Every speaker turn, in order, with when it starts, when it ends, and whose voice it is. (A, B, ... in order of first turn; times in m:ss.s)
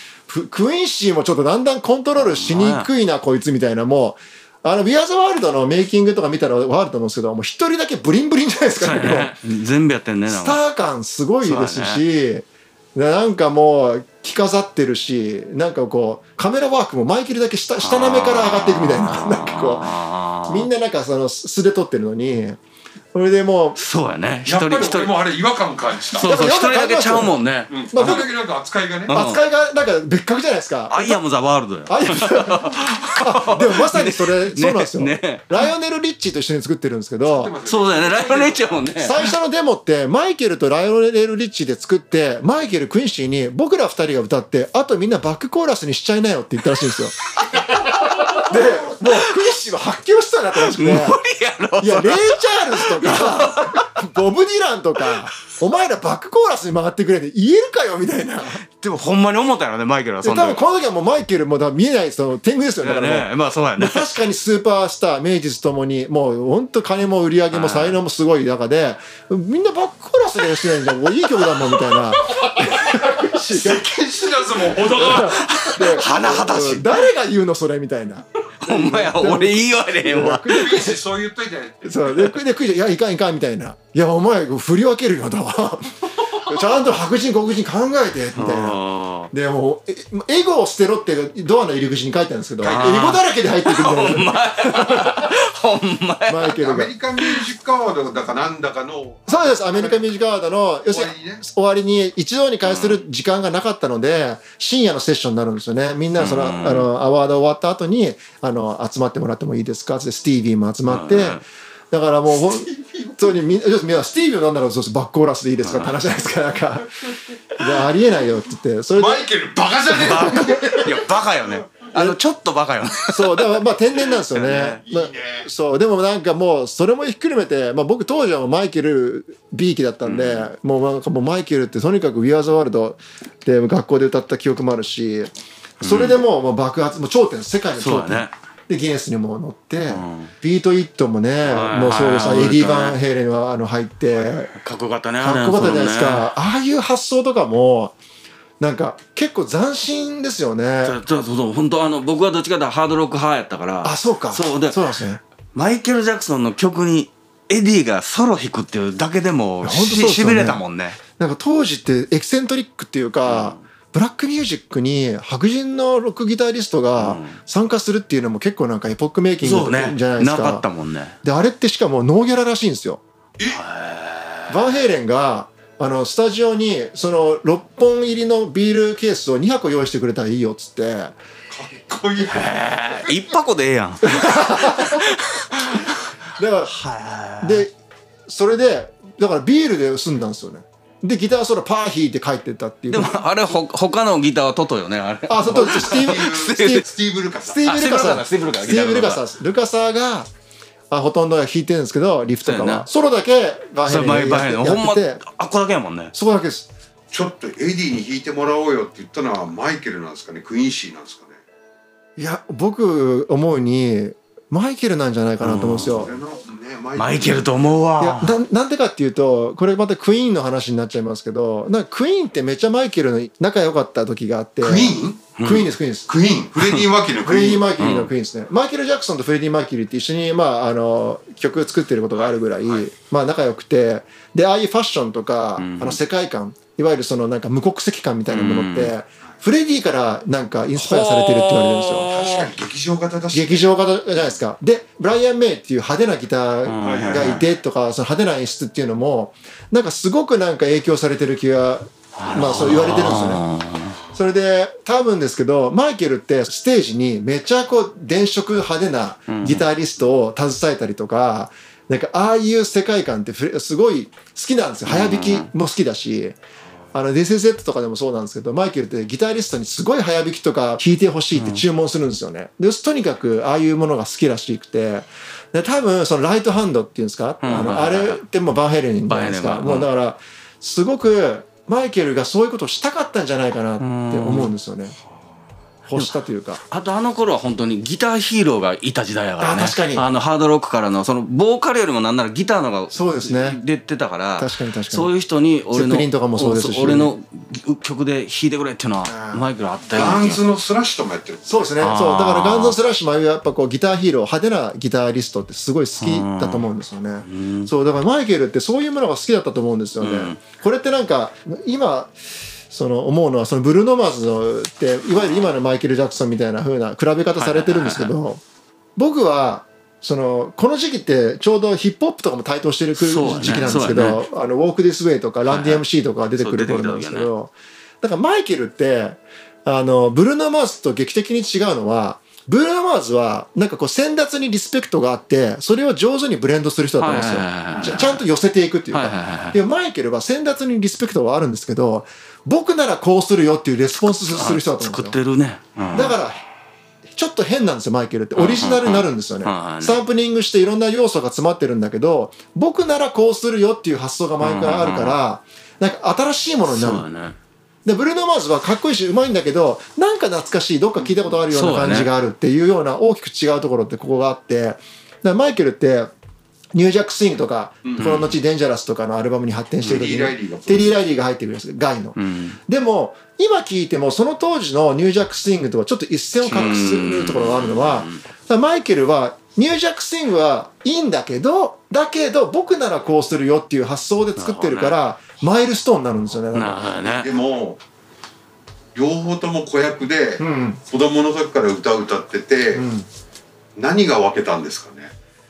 0:00.3-0:09.4 A
0:02.2-0:02.9 B
0:08.8-0:10.6 B
0:10.3-0:19.9 A
0:11.4-0:12.0 B
0:17.8-0:20.7 B
0:20.5-0:22.6 A
0:23.1-0:23.8 A
0:23.8-0:25.2 B
0:24.4-0:26.3 C
0:26.1-0:28.3 B
0:26.2-0:27.4 A
0:27.7-0:29.2 C
0:27.9-0:28.3 A
0:29.1-0:29.4 B
0:29.1-0:31.2 A
0:30.9-0:35.6 B
0:31.9-0:37.6 A
0:37.2-0:38.9 C
0:37.6-0:39.3 B
0:39.0-0:47.2 A
0:47.4-0:49.3 B
0:48.3-0:51.2 A
0:50.6-0:53.9 B
0:51.8-0:58.6 A
0:58.7-1:00.6 B
1:00.2-1:13.9 A
1:02.8-1:04.1 B
1:07.5-1:08.0 B
1:11.5-1:11.9 B
1:12.3-1:15.8 C
1:14.4-1:21.0 A
1:15.1-1:17.0 B
1:18.6-1:20.8 B
1:20.5-1:22.0 C
1:21.8-1:28.8 A
1:22.1-1:22.4 B
1:28.4-1:29.3 B
1:29.3-1:35.2 A
1:32.6-1:32.9 C
1:32.6-1:36.6 B
1:36.3-1:36.9 A
1:36.6-1:40.0 C
1:37.2-1:37.5 B
1:39.3-1:56.9 A
1:40.9-1:41.4 C
1:42.6-1:43.0 B
1:46.2-1:46.9 B
1:50.9-1:51.4 B
1:52.3-1:53.3 C
1:55.6-1:56.0 B
1:57.5-1:59.3 A
1:57.6-1:57.9 B
1:59.0-2:01.9 C
1:59.9-2:04.8 B
2:03.1-2:24.5 A
2:04.8-2:05.5 C
2:10.0-2:10.5 B
2:15.8-2:16.2 B
2:17.8-2:18.3 B
2:19.9-2:20.3 B
2:21.4-2:23.0 B
2:24.5-2:26.3 B
2:25.2-2:28.0 A
2:28.6-2:31.0 A
2:30.8-2:34.9 B
2:33.8-2:35.2 A
2:35.5-2:41.0 B
2:39.6-2:40.6 A
2:41.2-2:50.7 A
2:43.2-2:43.6 B
2:47.0-2:47.4 B
2:49.4-2:51.2 B
2:51.2-2:53.0 A
2:53.5-2:54.8 B
2:54.5-3:01.2 A
3:01.5-3:03.1 C
3:02.3-3:06.0 B
3:04.1-3:05.0 A
3:06.4-3:06.7 A
3:06.6-3:07.7 B
3:07.4-3:07.7 A
3:08.3-3:13.2 A
3:12.9-3:16.9 B
3:15.3-3:16.8 A
3:15.4-3:17.7 C
3:17.4-3:20.3 A
3:17.6-3:19.2 B
3:20.9-3:25.2 A
3:22.4-3:22.9 B
3:23.8-3:26.1 B
3:26.1-3:26.7 A
3:27.1-3:31.4 C
3:32.2-3:36.1 A
3:35.4-3:36.1 B
3:35.7-3:37.5 C
3:37.0-3:38.4 B
3:38.0-3:46.1 A
3:44.6-3:45.4 C
3:45.4-3:45.7 B
3:46.1-3:47.7 C
3:46.6-3:46.9 B
3:47.2-4:02.1 A
3:47.8-3:48.1 B
3:52.1-3:52.9 C
3:55.6-3:56.0 B
3:58.3-3:58.9 B
4:00.8-4:02.5 B
4:02.0-4:03.7 C
4:03.3-4:13.4 A
4:06.7-4:07.5 B
4:06.8-4:07.4 C
4:12.2-4:14.0 B
4:14.1-4:26.4 A
4:19.3-4:19.7 B
4:24.9-4:25.5 B
4:26.9-4:45.0 A
4:31.3-4:31.6 B
4:37.4-4:38.2 B
4:39.1-4:39.9 B
4:43.8-4:44.5 B
4:45.9-4:46.6 A
4:46.7-5:00.4 B
4:49.4-4:50.1 A
4:52.9-4:53.6 A
4:54.4-4:55.1 A
4:55.7-4:57.1 A
4:59.0-4:59.5 A
4:59.9-5:01.7 C
5:01.5-5:12.1 A
5:01.8-5:02.8 B
5:06.0-5:06.6 B
5:07.2-5:07.7 B
5:10.0-5:10.4 B
5:12.7-5:18.4 A
5:17.4-5:18.1 B
5:19.0-5:45.2 A
5:23.0-5:24.2 B
5:25.5-5:27.3 B
5:37.0-5:38.2 B
5:38.9-5:39.6 B
5:44.0-5:46.2 B
5:45.9-5:46.4 A
5:47.2-5:57.0 A
5:48.4-5:50.0 B
5:54.4-5:55.2 B
5:56.7-5:57.4 B
5:57.8-6:06.1 A
6:01.5-6:02.1 B
6:06.7-6:26.9 A
6:08.0-6:08.3 B
6:09.8-6:11.0 C
6:12.2-6:12.6 B
6:16.4-6:18.2 B
6:24.4-6:25.0 B
6:26.5-6:27.3 B
6:27.0-6:27.8 C
6:29.0-6:32.9 C
6:30.4-6:30.8 A
6:32.7-6:33.1 A
6:33.8-6:35.1 C